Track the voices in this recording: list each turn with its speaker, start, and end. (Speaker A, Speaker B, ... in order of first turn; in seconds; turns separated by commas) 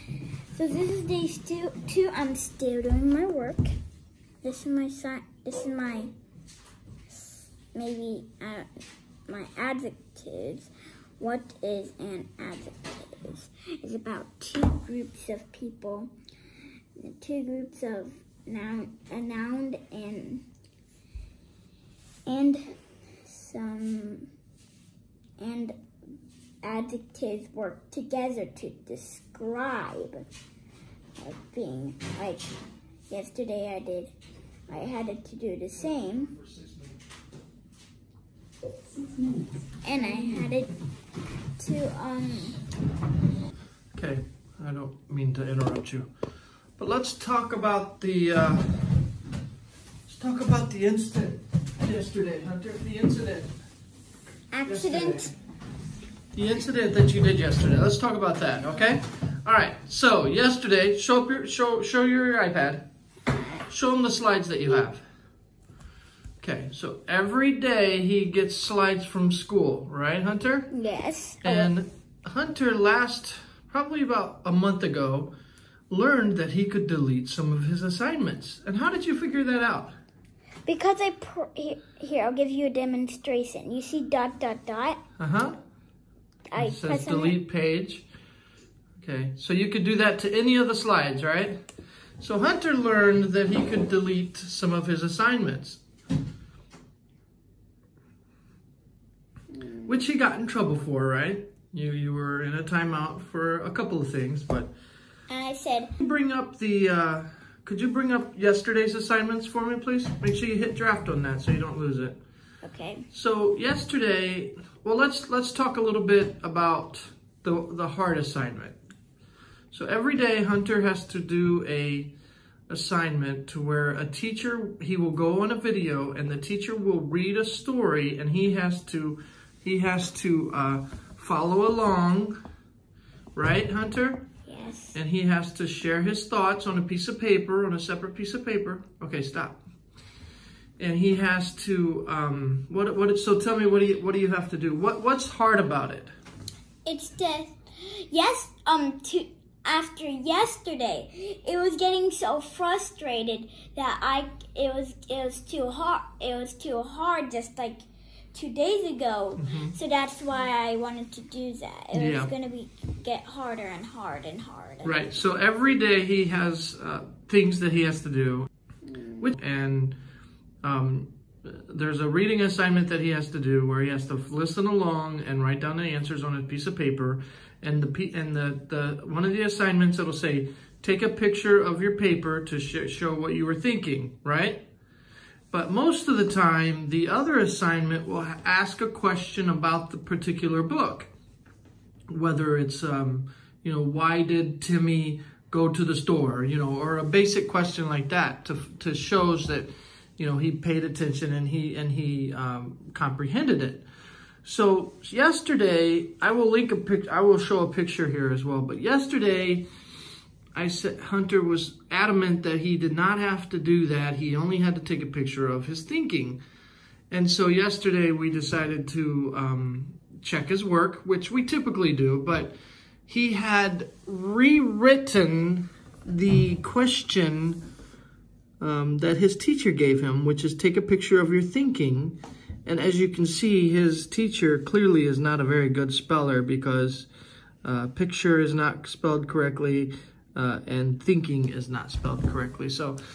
Speaker A: 0.5-3.7, Speaker A: 4.4-6.1, Speaker A: 7.7-8.7, Speaker A: 9.3-16.1, Speaker A: 17.0-20.4, Speaker A: 22.3-24.3, Speaker A: 25.4-25.7, Speaker A: 26.6-30.3, Speaker A: 31.2-32.4, Speaker A: 33.1-34.1, Speaker A: 34.7-36.4, Speaker A: 39.8-40.7, Speaker A: 41.6-42.6, Speaker B: 43.9-46.1, Speaker B: 46.8-48.8, Speaker B: 50.1-53.5, Speaker A: 54.5-55.3, Speaker B: 54.6-55.3, Speaker B: 56.3-62.8, Speaker B: 63.7-65.0, Speaker B: 66.4-70.7, Speaker A: 70.7-71.7, Speaker B: 71.4-75.3, Speaker B: 75.9-79.9, Speaker A: 80.7-85.0, Speaker B: 85.2-85.6, Speaker A: 86.5-87.3, Speaker B: 86.5-88.0, Speaker B: 89.0-91.6, Speaker B: 92.2-95.8, Speaker A: 99.5-100.0, Speaker B: 99.9-104.7, Speaker A: 105.3-105.9, Speaker B: 106.0-112.2, Speaker A: 112.6-113.0, Speaker B: 113.1-118.8, Speaker B: 119.7-122.1, Speaker B: 122.7-132.3, Speaker B: 133.3-134.2, Speaker A: 134.5-134.9, Speaker B: 134.9-139.6, Speaker B: 140.8-146.1, Speaker A: 146.8-165.1, Speaker B: 159.4-159.7, Speaker B: 161.9-162.3, Speaker B: 164.8-168.5, Speaker A: 168.9-169.2, Speaker B: 169.2-169.9, Speaker B: 170.6-184.6, Speaker B: 185.5-191.1, Speaker B: 192.1-203.8, Speaker B: 204.4-209.6, Speaker B: 210.5-216.4, Speaker B: 217.1-222.5, Speaker B: 223.1-227.6, Speaker B: 228.6-237.1, Speaker B: 237.6-243.0